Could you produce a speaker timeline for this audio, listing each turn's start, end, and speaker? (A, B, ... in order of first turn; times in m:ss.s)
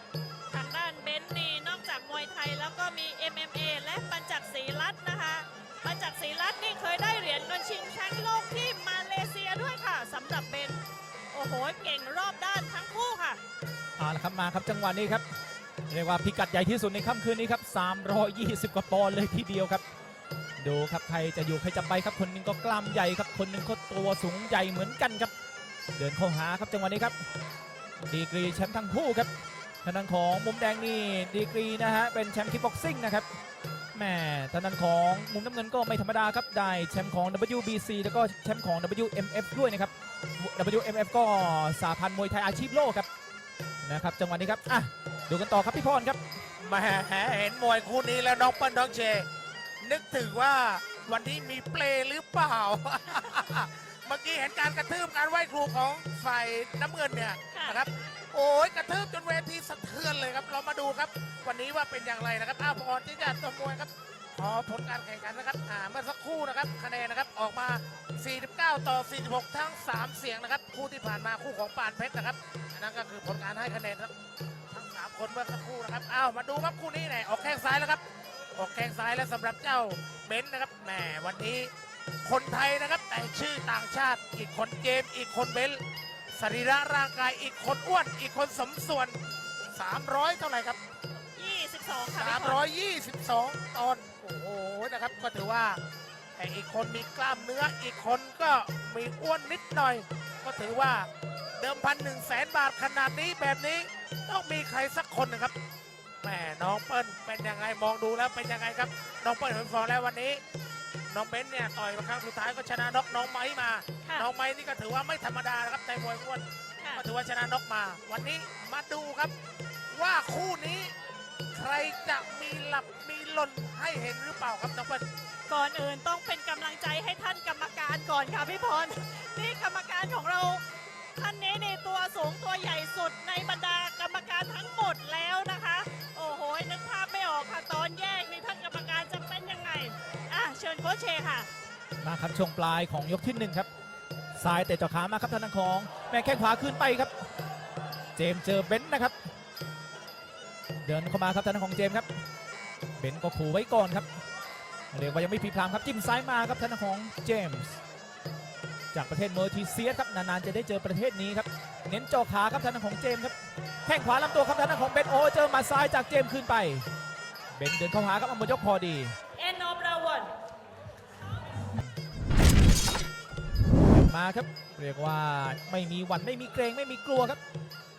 0:00.5-0:10.8 A
0:11.3-0:13.4 A
0:14.0-0:15.2 B
0:15.9-0:19.8 B
0:20.6-0:25.3 B
0:26.0-0:27.1 B
0:28.0-0:29.3 B
0:29.8-0:33.3 B
0:34.0-0:43.1 B
0:43.8-0:46.2 B
0:46.6-0:49.3 C
0:49.8-1:14.1 C
0:57.5-0:57.8 A
1:14.7-1:18.0 C
1:18.6-1:21.7 C
1:22.2-1:25.8 C
1:26.4-1:29.2 C
1:29.7-1:30.8 C
1:31.4-1:32.6 A
1:32.1-1:35.8 C
1:36.4-1:41.1 C
1:41.6-1:45.5 C
1:46.2-1:50.4 C
1:51.1-1:59.3 C
1:59.9-2:00.9 C
2:01.5-2:05.0 C
2:05.5-2:10.6 A
2:11.2-2:21.5 A
2:22.0-2:23.7 B
2:24.4-2:27.1 B
2:28.2-2:29.2 B
2:30.8-2:32.1 B
2:33.0-2:34.1 B
2:34.9-2:37.8 B
2:38.9-2:43.4 B
2:43.9-2:46.8 B
2:47.6-2:49.2 B
2:49.4-2:50.3 A
2:53.9-2:57.4 B